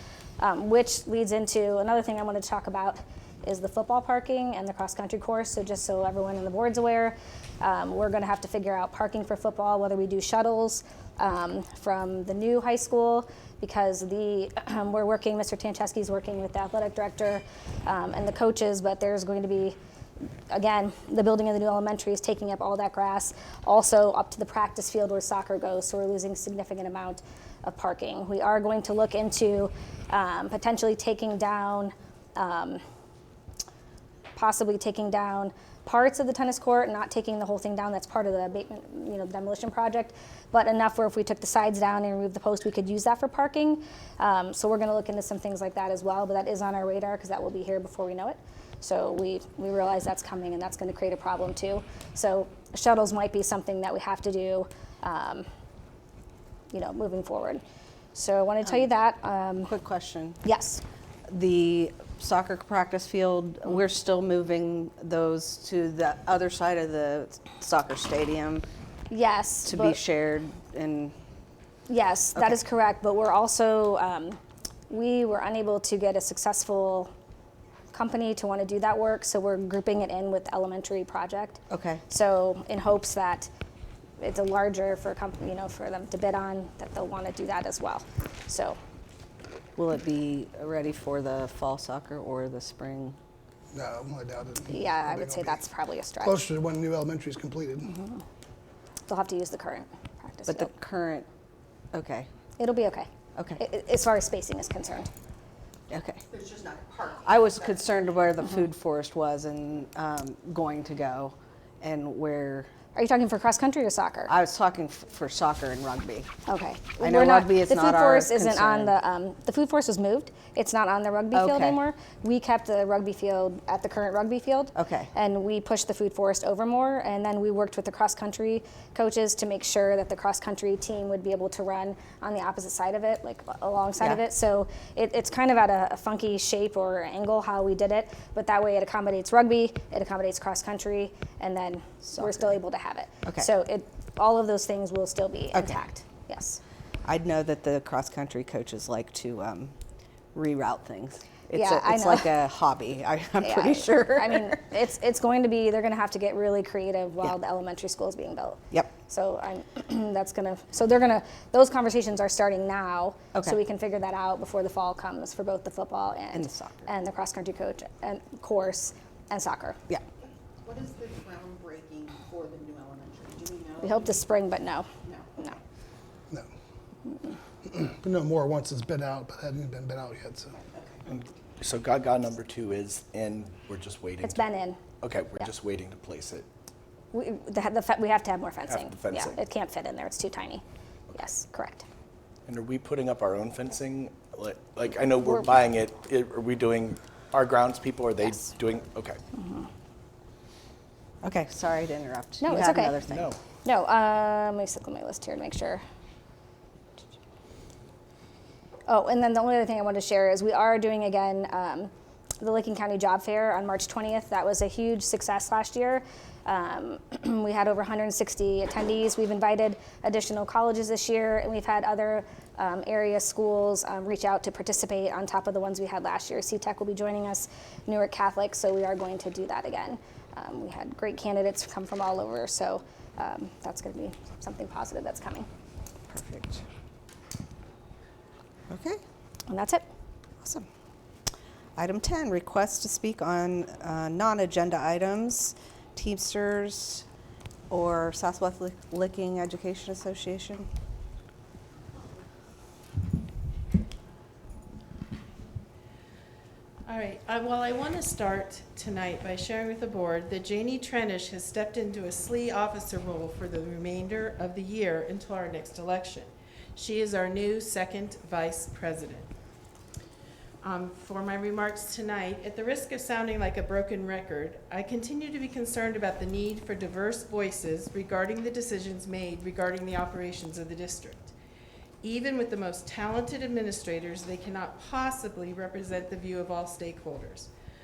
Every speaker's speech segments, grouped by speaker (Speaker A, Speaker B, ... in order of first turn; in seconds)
Speaker A: 0.4-19.8, 20.5-32.8, 34.4-55.5, 56.7-57.6, 58.1-59.7, 60.4-60.8, 69.1-70.0, 71.9-74.4, 74.9-77.1, 77.9-83.5, 84.2-88.8, 94.7-96.4, 99.1-100.7, 102.6-105.1, 112.9-114.3, 116.5-146.6, 151.5-152.3, 153.4-169.8, 173.8-174.9, 184.2-184.8, 187.1-190.6, 191.2-191.8, 202.4-203.0, 203.6-205.8, 208.9-235.5, 239.5-239.8
Speaker B: 59.6-60.4, 61.3-68.6, 69.6-71.1, 81.7-82.0, 89.8-93.2, 100.5-101.3, 101.9-102.3, 105.9-106.2, 107.2-112.7, 114.3-116.3, 117.0-118.9, 121.3-121.8, 124.7-125.1, 147.0-149.7, 150.3-154.6, 166.3-166.9, 201.2-203.3, 236.1-236.6, 238.7-239.0, 241.8-247.0, 247.7-250.7
Speaker C: 93.7-95.5, 96.2-97.9, 177.6-180.6
Speaker D: 106.3-107.3, 170.6-173.8
Speaker E: 181.1-184.4, 185.0-186.4, 188.7-189.4, 192.5-199.2, 203.1-203.4
Speaker F: 256.9-269.3, 270.6-281.3, 282.0-287.5